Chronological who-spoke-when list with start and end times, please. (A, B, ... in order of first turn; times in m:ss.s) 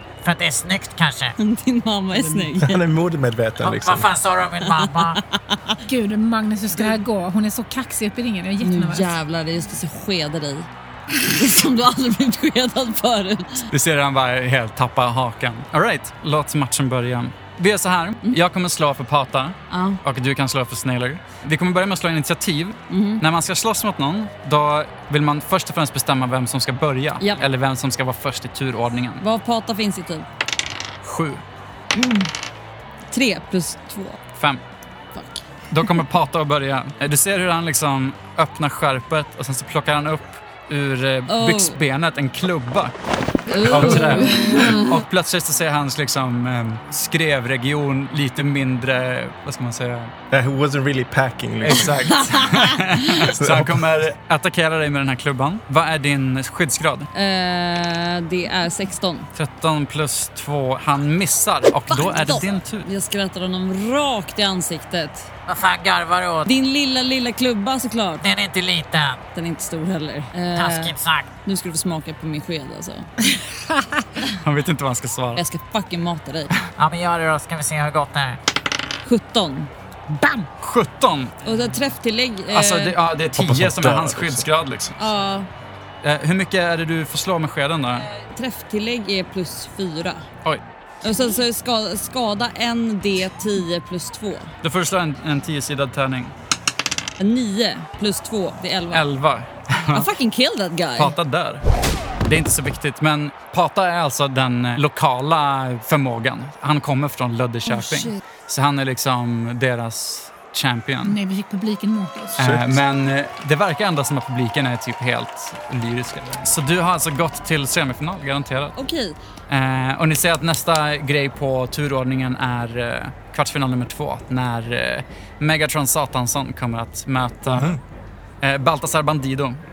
0:00.2-0:01.3 A
0:01.4-0:02.9 B
0:02.4-0:04.1 C
0:03.6-0:05.2 A
0:04.6-0:05.8 B
0:05.8-0:09.1 D
0:08.6-0:13.6 B
0:13.7-0:29.2 E
0:19.7-0:20.0 B
0:22.9-0:23.2 B
0:27.2-0:27.4 B
0:29.2-0:30.2 B
0:31.0-0:31.4 E
0:31.9-0:32.3 B
0:33.1-0:34.2 B
0:34.4-0:34.6 E
0:35.7-0:42.9 E
0:41.3-0:41.8 B
0:43.5-0:45.0 B
0:43.6-0:50.1 E
0:50.3-0:52.0 C
0:51.6-0:57.1 E
0:51.9-0:53.3 B
0:53.2-0:53.9 C
0:57.1-0:59.3 B
0:59.3-1:02.9 E
1:01.9-1:05.3 B
1:05.5-1:06.4 A
1:06.4-1:08.2 B
1:08.2-1:09.2 A
1:09.3-1:13.1 B
1:10.5-1:11.3 A
1:14.4-1:15.4 E
1:15.3-1:16.5 B
1:16.8-1:18.4 A
1:19.0-1:19.7 B
1:20.1-1:20.4 D
1:20.6-1:21.3 E
1:21.4-1:23.0 B
1:22.5-1:25.1 E
1:23.4-1:24.4 C
1:25.0-1:25.5 B
1:26.0-1:28.0 E
1:28.0-1:30.2 B
1:31.0-1:34.5 B
1:34.6-1:36.3 E
1:37.2-1:39.1 B
1:38.9-1:40.1 E
1:39.9-1:41.2 B
1:41.0-1:41.6 E
1:42.2-1:51.2 E
1:47.6-1:48.2 B
1:51.0-1:52.4 D
1:52.4-1:58.8 E
1:52.4-1:52.8 C
1:58.8-1:59.2 B
1:59.5-2:07.8 E
2:08.4-2:09.6 E